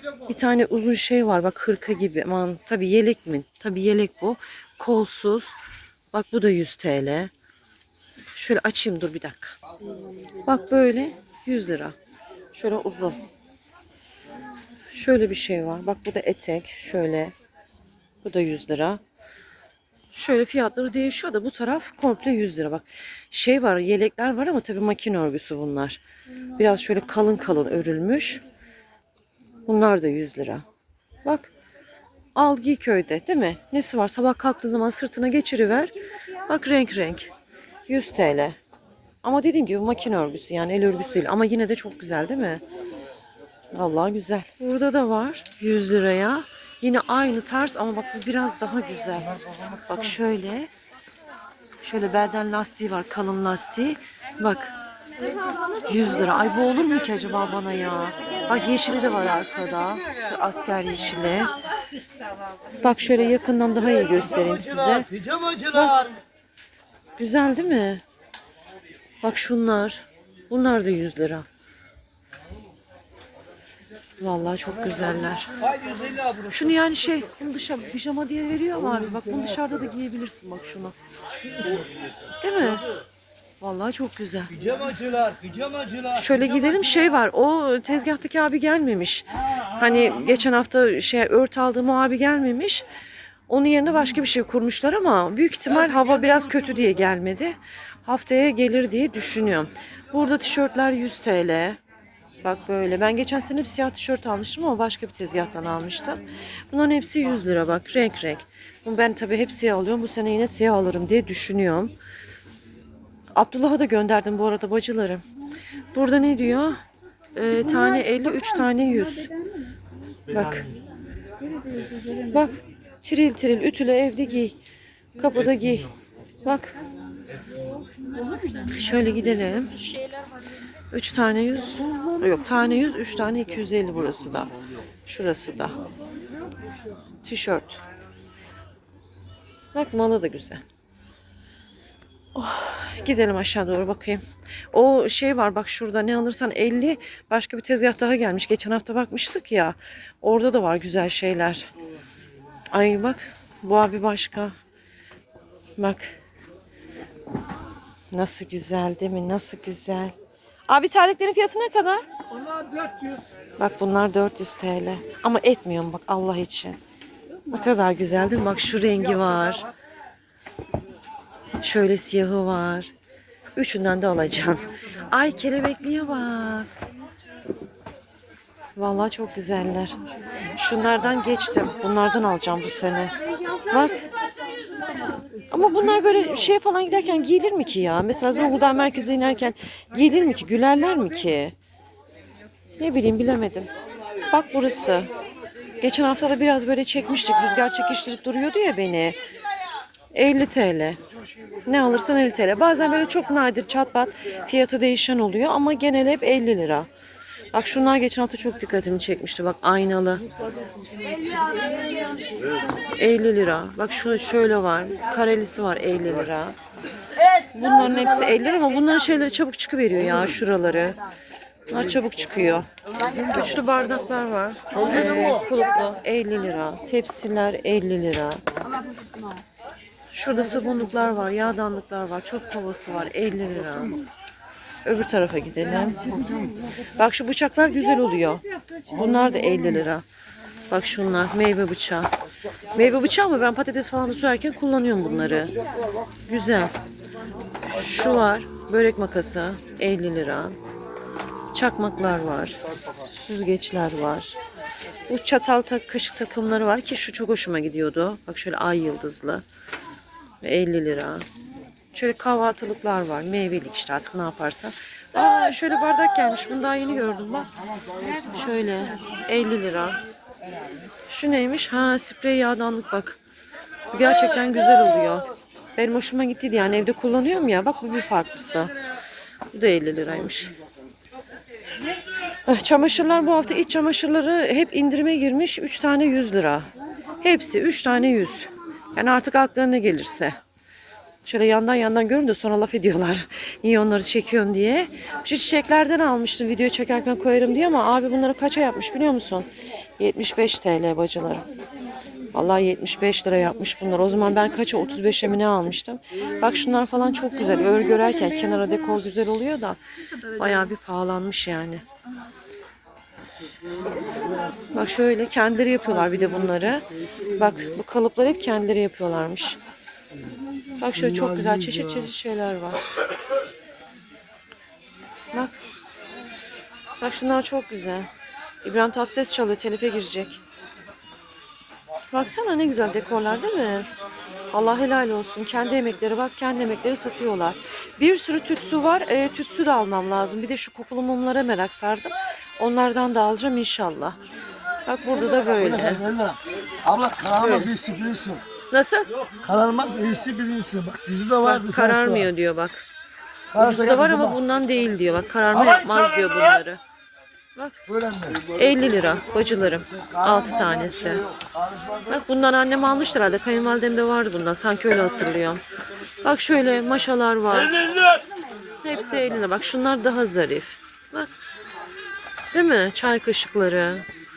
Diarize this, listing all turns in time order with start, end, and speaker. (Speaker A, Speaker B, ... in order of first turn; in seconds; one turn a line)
Speaker A: 0.3-5.5
Speaker A: 6.1-7.3
Speaker A: 8.3-9.6
Speaker A: 10.4-11.9
Speaker A: 12.5-13.2
Speaker A: 14.9-17.3
Speaker A: 18.2-19.0
Speaker A: 20.1-26.0
Speaker A: 26.6-28.4
Speaker A: 29.6-30.6
Speaker A: 31.2-31.5
Speaker A: 32.3-35.9
Speaker A: 36.5-37.3
Speaker A: 37.9-38.6
Speaker A: 39.2-42.6
Speaker A: 43.7-50.7
Speaker A: 51.8-54.7
Speaker A: 55.9-61.5
Speaker A: 62.8-65.1
Speaker B: 64.4-66.1
Speaker A: 65.7-66.0
Speaker A: 67.2-68.0
Speaker A: 69.2-71.5
Speaker A: 74.2-75.5
Speaker B: 75.7-76.5
Speaker A: 76.5-80.9
Speaker A: 82.4-82.8
Speaker A: 83.6-84.5
Speaker B: 84.6-86.2
Speaker A: 86.1-92.8
Speaker A: 93.5-101.8
Speaker A: 102.4-111.9
Speaker A: 113.3-115.2
Speaker A: 115.9-116.8
Speaker A: 117.3-119.3
Speaker A: 120.3-120.7
Speaker A: 122.2-124.6
Speaker A: 125.2-125.9
Speaker A: 126.4-126.7
Speaker A: 128.6-130.1
Speaker A: 130.9-134.5
Speaker A: 135.1-135.8
Speaker A: 137.2-137.8
Speaker A: 139.7-140.6
Speaker A: 142.3-151.7
Speaker A: 152.7-154.5
Speaker A: 155.8-156.1
Speaker A: 158.1-160.1
Speaker A: 160.7-162.0
Speaker B: 162.6-163.1
Speaker A: 163.6-166.8
Speaker A: 167.5-169.7
Speaker A: 171.6-172.9
Speaker A: 173.6-176.7
Speaker A: 178.8-180.0
Speaker A: 180.5-183.2
Speaker A: 183.7-184.1
Speaker A: 185.5-191.5
Speaker A: 192.8-193.7
Speaker A: 194.3-195.1
Speaker A: 195.8-199.2
Speaker A: 200.1-201.0
Speaker A: 201.6-206.9
Speaker A: 207.5-210.2
Speaker A: 212.9-216.5
Speaker A: 217.5-221.0
Speaker A: 221.7-228.4
Speaker A: 230.1-233.9
Speaker A: 234.8-236.1
Speaker A: 236.9-240.0
Speaker A: 240.7-242.1
Speaker A: 242.7-245.5
Speaker A: 246.2-246.8
Speaker A: 247.6-250.6
Speaker A: 251.5-252.6
Speaker A: 253.2-254.4
Speaker A: 255.1-259.4
Speaker A: 260.4-261.3
Speaker A: 261.9-267.5
Speaker A: 268.2-270.0
Speaker A: 271.1-273.2
Speaker A: 273.9-278.7
Speaker A: 279.5-280.5
Speaker A: 282.4-286.7
Speaker A: 287.2-290.4
Speaker A: 291.2-301.4
Speaker A: 302.3-311.8
Speaker A: 314.7-319.6
Speaker A: 320.8-322.8
Speaker A: 327.0-328.1
Speaker A: 328.6-330.4
Speaker A: 332.1-333.9
Speaker A: 334.5-344.2
Speaker A: 344.8-346.0
Speaker B: 345.6-348.4
Speaker A: 347.4-347.7
Speaker A: 348.7-349.1
Speaker B: 349.4-352.3
Speaker A: 351.4-352.8
Speaker B: 353.5-354.4
Speaker A: 353.6-356.8
Speaker B: 355.5-356.5
Speaker B: 357.9-358.4
Speaker A: 358.4-361.2
Speaker A: 362.1-365.6
Speaker A: 366.2-367.8
Speaker B: 367.8-368.2
Speaker A: 368.8-371.3
Speaker A: 372.5-374.1